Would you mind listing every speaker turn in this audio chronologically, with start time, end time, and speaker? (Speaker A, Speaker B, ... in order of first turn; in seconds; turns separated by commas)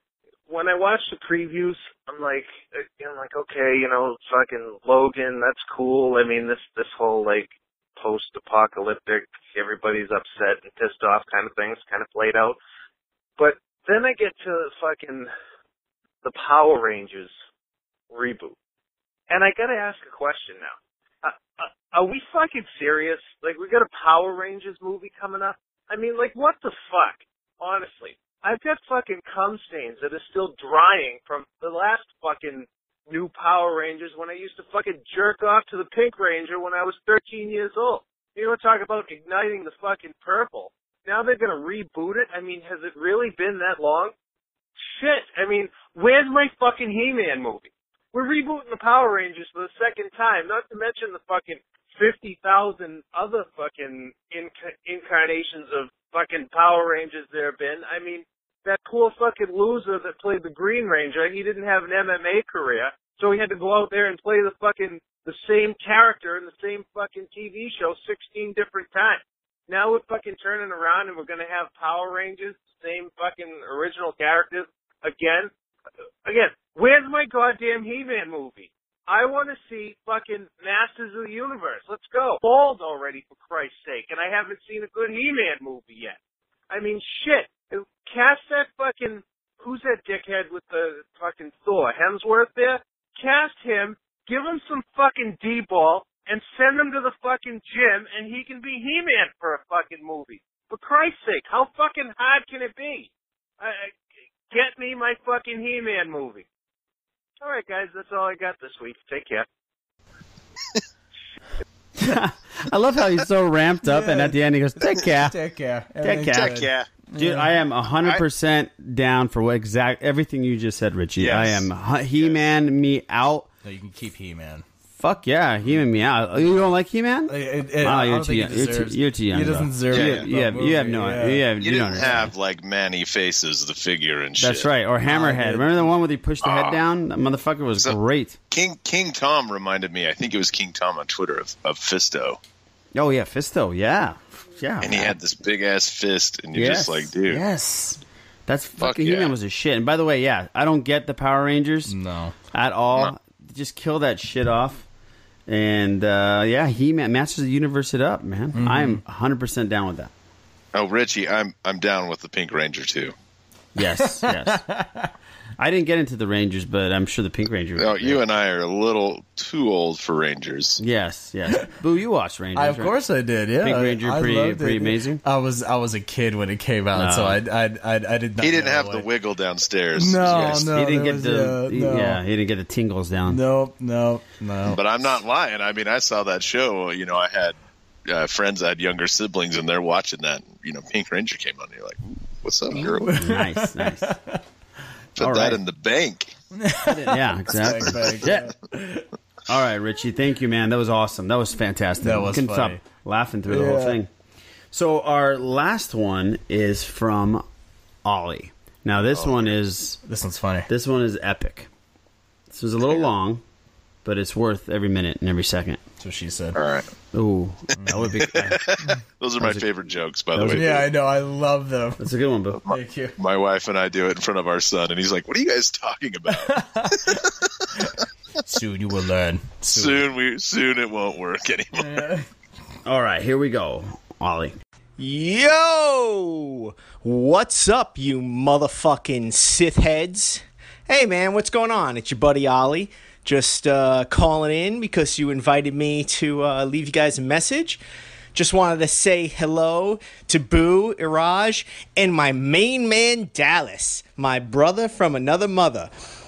Speaker A: 0.5-12.6, Speaker A: 13.4-15.3, Speaker A: 16.2-17.3, Speaker A: 18.1-18.6, Speaker A: 19.3-44.1, Speaker A: 45.0-75.5, Speaker A: 76.2-86.2, Speaker A: 86.7-104.0, Speaker A: 104.5-106.5, Speaker A: 107.4-109.5, Speaker B: 112.0-115.4, Speaker C: 113.8-114.4, Speaker C: 114.9-117.5, Speaker B: 116.0-123.5, Speaker D: 116.3-116.9, Speaker D: 121.2-121.7, Speaker C: 123.6-124.7, Speaker B: 125.0-132.3, Speaker C: 127.3-131.5, Speaker D: 129.9-130.2, Speaker D: 131.6-134.7, Speaker B: 134.4-138.4, Speaker C: 135.1-135.8, Speaker D: 136.4-136.8, Speaker D: 138.5-142.4, Speaker B: 142.9-145.2, Speaker D: 144.8-147.4, Speaker B: 146.6-151.9, Speaker D: 148.8-149.3, Speaker C: 151.9-152.3, Speaker B: 152.5-154.8, Speaker B: 155.5-160.1, Speaker C: 158.6-159.0, Speaker D: 160.7-163.2, Speaker B: 163.8-164.6, Speaker C: 163.9-165.1, Speaker B: 165.6-168.2, Speaker D: 167.8-170.8, Speaker B: 170.8-173.0, Speaker C: 172.6-179.1, Speaker B: 173.6-175.2, Speaker B: 176.9-177.4, Speaker D: 178.4-180.7, Speaker C: 180.0-182.2, Speaker B: 180.5-183.4, Speaker C: 183.3-184.8, Speaker D: 184.7-187.6, Speaker D: 188.1-193.1, Speaker C: 192.8-194.4, Speaker B: 193.1-194.2, Speaker D: 195.2-196.3, Speaker B: 195.2-195.6, Speaker C: 196.6-199.1, Speaker B: 196.9-198.5, Speaker B: 199.5-204.1, Speaker C: 202.0-202.8, Speaker C: 203.5-204.0, Speaker B: 204.7-207.4, Speaker B: 208.1-210.0, Speaker D: 209.1-209.6, Speaker C: 210.1-210.7, Speaker B: 210.7-211.7, Speaker B: 212.5-213.4, Speaker B: 214.1-215.8, Speaker C: 216.0-216.6, Speaker D: 216.6-216.9, Speaker B: 217.1-218.7, Speaker C: 217.8-218.1, Speaker D: 218.2-220.8, Speaker B: 219.4-219.7, Speaker B: 220.3-220.8, Speaker C: 220.5-222.1, Speaker B: 222.0-222.6, Speaker D: 222.7-227.4, Speaker C: 222.7-223.1, Speaker C: 226.4-227.9, Speaker C: 228.4-230.1, Speaker D: 229.7-232.1, Speaker C: 231.8-232.3, Speaker B: 232.8-234.6, Speaker E: 235.0-247.8, Speaker E: 248.3-255.9